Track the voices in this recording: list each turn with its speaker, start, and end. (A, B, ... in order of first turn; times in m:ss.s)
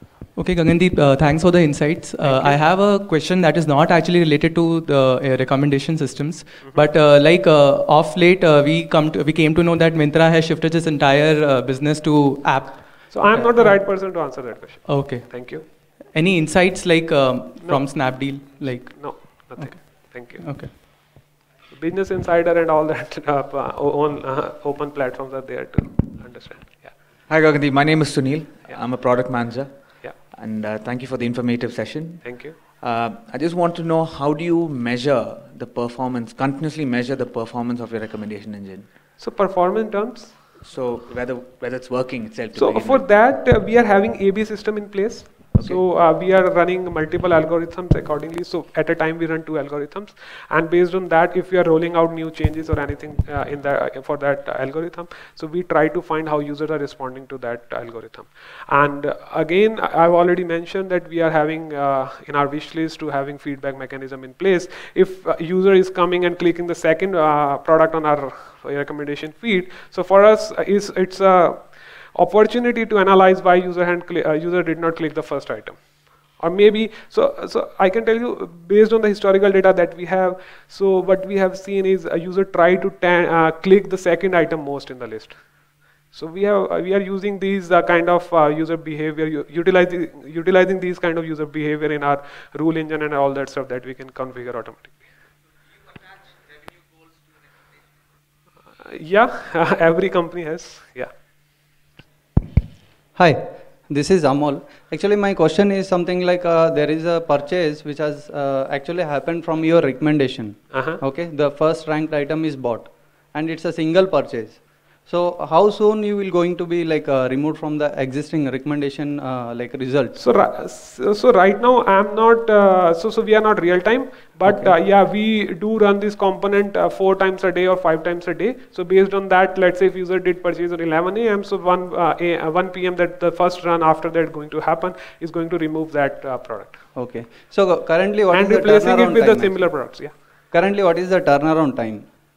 0:00.3-0:14.3 A
0:02.2-0:02.6 B
0:13.1-0:15.6 B
0:14.8-0:20.7 A
0:17.6-0:21.0 B
0:21.7-0:26.9 B
0:27.3-0:38.9 C
0:32.2-0:32.6 B
0:39.2-0:40.4 B
0:40.6-0:43.1 C
0:42.6-1:15.8 B
0:45.6-0:45.8 C
1:16.4-1:25.4 B
1:26.1-1:35.0 B
1:38.8-1:41.1 B
1:43.2-2:00.2 D
1:50.7-1:51.0 B
2:00.2-2:16.8 B
2:04.5-2:04.7 D
2:17.0-2:19.9 D
2:18.3-2:20.1 B
2:20.5-2:22.1 D